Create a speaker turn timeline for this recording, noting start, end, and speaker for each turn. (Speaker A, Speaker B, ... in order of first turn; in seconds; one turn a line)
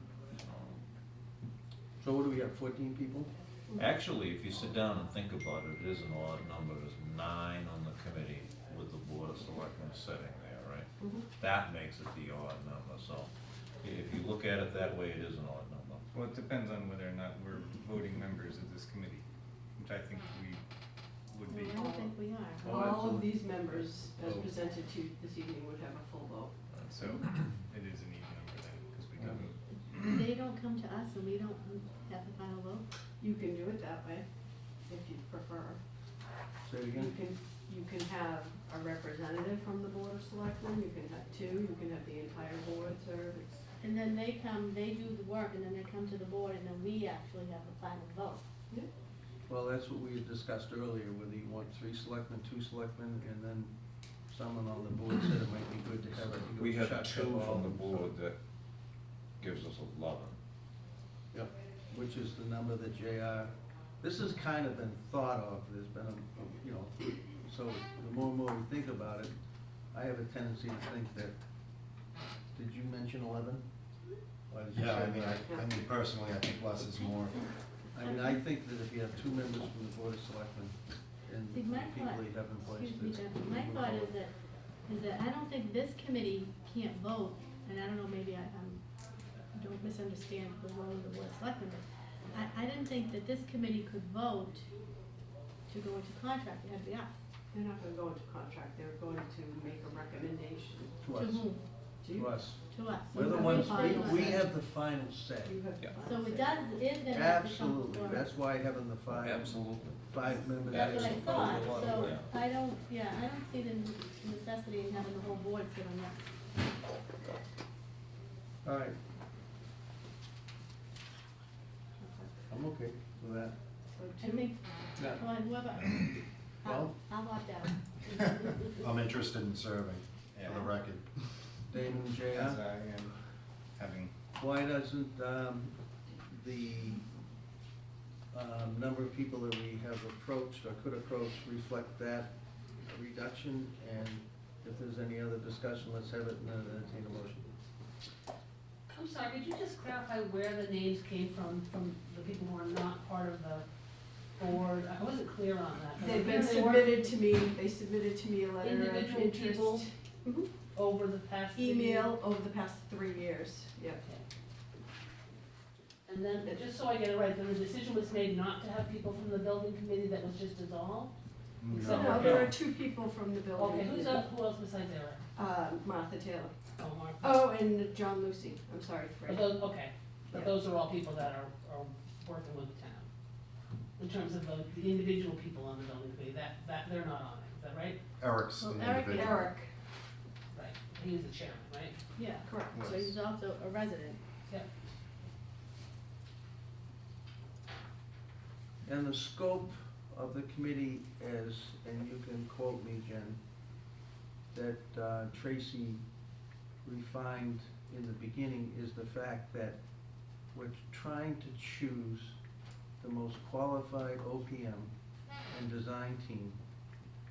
Speaker A: 0.3-0.8
Speaker B: 2.0-3.3
Speaker A: 3.8-13.3
Speaker C: 11.0-11.3
Speaker A: 13.8-16.0
Speaker D: 16.1-19.2
Speaker D: 19.8-20.6
Speaker D: 21.3-21.8
Speaker E: 21.5-22.8
Speaker C: 21.7-26.5
Speaker B: 22.6-24.5
Speaker D: 26.7-29.6
Speaker B: 29.2-29.4
Speaker E: 29.9-32.9
Speaker C: 33.2-34.3
Speaker C: 34.9-35.8
Speaker B: 36.6-37.2
Speaker C: 36.9-43.6
Speaker E: 43.8-48.4
Speaker B: 49.5-53.7
Speaker B: 54.3-58.1
Speaker A: 56.3-58.4
Speaker A: 59.4-60.4
Speaker B: 61.3-69.3
Speaker B: 69.9-71.4
Speaker B: 72.5-73.6
Speaker B: 74.5-75.5
Speaker F: 74.7-77.4
Speaker B: 77.9-84.1
Speaker E: 78.0-78.4
Speaker E: 81.5-84.3
Speaker E: 84.9-88.8
Speaker E: 89.5-94.7
Speaker E: 95.7-97.1
Speaker C: 97.5-101.0
Speaker B: 101.0-101.5
Speaker E: 101.2-101.6
Speaker C: 102.0-102.4
Speaker B: 102.1-105.6
Speaker E: 102.7-104.5
Speaker C: 103.2-104.5
Speaker C: 105.5-106.6
Speaker E: 106.0-108.3
Speaker B: 107.1-112.2
Speaker A: 109.1-110.0
Speaker E: 110.6-116.2
Speaker D: 110.7-112.1
Speaker B: 118.6-119.0
Speaker E: 122.0-122.3
Speaker B: 122.5-123.6
Speaker C: 124.0-124.5
Speaker E: 124.2-127.8
Speaker B: 125.0-125.2
Speaker B: 126.7-126.9
Speaker F: 128.8-131.1
Speaker B: 131.7-132.6
Speaker D: 132.2-133.2
Speaker D: 133.8-134.1
Speaker B: 134.4-135.8
Speaker B: 136.3-137.1
Speaker B: 138.3-142.3
Speaker B: 142.8-147.5
Speaker G: 148.9-153.7
Speaker G: 154.4-157.2
Speaker C: 156.0-160.5
Speaker G: 158.6-159.9
Speaker G: 160.7-162.2
Speaker C: 161.6-164.0
Speaker G: 164.0-164.2
Speaker G: 166.1-171.1
Speaker B: 171.7-172.5
Speaker F: 171.7-172.2
Speaker G: 171.7-172.6
Speaker C: 171.8-174.3
Speaker G: 173.6-175.2
Speaker C: 175.3-176.5
Speaker G: 176.8-177.4
Speaker C: 177.2-179.5
Speaker G: 179.3-183.1
Speaker G: 184.0-188.0
Speaker F: 188.2-189.4
Speaker E: 188.6-189.6
Speaker C: 189.1-189.7
Speaker G: 190.5-192.0
Speaker E: 192.2-194.2
Speaker C: 192.5-193.0
Speaker B: 198.8-203.4
Speaker B: 204.5-206.0
Speaker B: 206.8-209.8
Speaker B: 210.5-212.4
Speaker B: 213.0-214.9
Speaker B: 215.5-216.6